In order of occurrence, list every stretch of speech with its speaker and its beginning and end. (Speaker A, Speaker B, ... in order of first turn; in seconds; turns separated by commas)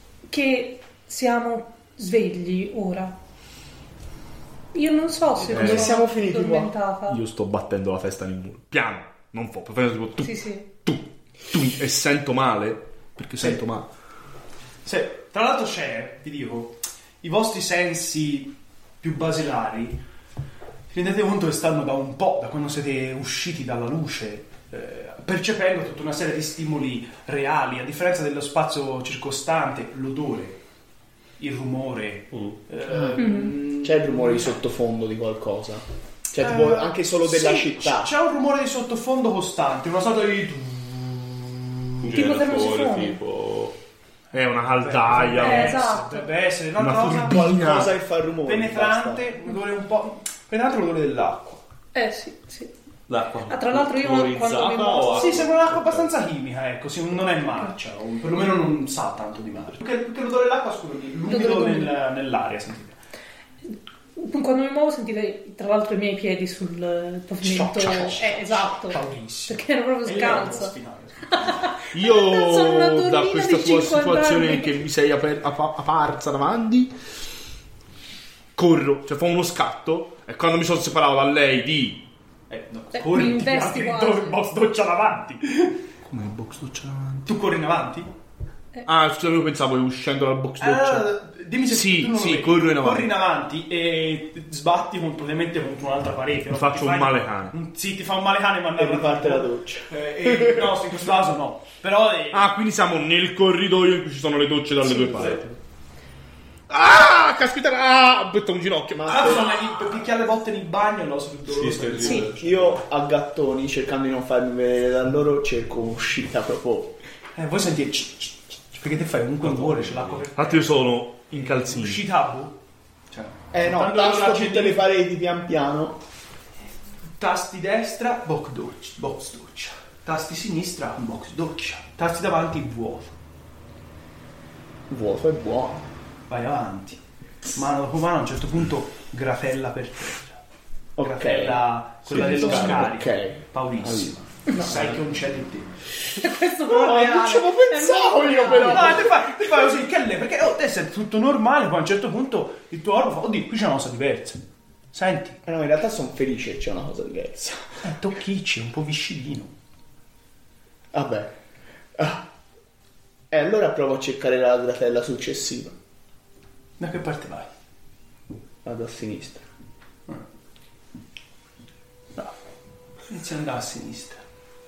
Speaker A: 0.3-3.1, Speaker A: 4.7-7.2, Speaker B: 5.5-6.0, Speaker C: 5.5-6.7, Speaker B: 7.1-13.9, Speaker A: 10.2-10.7, Speaker D: 14.8-20.0, Speaker D: 20.9-30.6, Speaker D: 31.4-34.5, Speaker E: 32.3-32.6, Speaker C: 32.9-38.1, Speaker A: 33.2-33.5, Speaker D: 36.4-41.5, Speaker E: 42.0-43.8, Speaker A: 42.1-43.2, Speaker B: 44.3-45.8, Speaker D: 44.8-47.6, Speaker A: 45.4-46.3, Speaker B: 46.8-47.9, Speaker C: 47.2-49.3, Speaker D: 48.4-51.6, Speaker A: 51.9-52.7, Speaker E: 53.1-56.1, Speaker A: 53.5-55.4, Speaker D: 55.1-63.0, Speaker A: 61.3-62.0, Speaker A: 64.2-70.7, Speaker D: 67.4-71.7, Speaker A: 71.3-74.8, Speaker B: 71.9-76.9, Speaker B: 78.5-82.0, Speaker D: 82.5-85.8, Speaker A: 82.9-84.4, Speaker B: 86.1-87.3, Speaker D: 87.2-88.1, Speaker B: 88.8-91.1, Speaker D: 90.6-102.5, Speaker B: 91.7-93.1, Speaker B: 96.5-97.5, Speaker C: 98.8-100.6, Speaker B: 102.3-105.6, Speaker B: 106.7-109.6, Speaker C: 108.9-109.6, Speaker D: 109.0-112.4, Speaker E: 111.5-112.8, Speaker A: 112.0-112.3, Speaker C: 112.4-117.0, Speaker D: 117.3-122.5, Speaker E: 119.4-120.2, Speaker B: 120.3-122.0, Speaker D: 123.1-124.8, Speaker C: 123.5-126.0, Speaker D: 127.2-133.1, Speaker C: 134.9-135.8, Speaker D: 136.3-137.0, Speaker D: 137.5-140.4, Speaker C: 141.0-144.9, Speaker D: 141.0-145.7, Speaker E: 142.1-142.4, Speaker A: 146.1-149.0, Speaker C: 146.7-149.2, Speaker D: 148.6-154.4, Speaker D: 154.9-155.4, Speaker C: 155.4-157.8, Speaker D: 157.8-159.5, Speaker C: 160.9-161.3, Speaker C: 161.9-162.2, Speaker C: 163.3-165.7, Speaker D: 166.8-167.5, Speaker C: 168.6-169.4, Speaker D: 173.1-174.2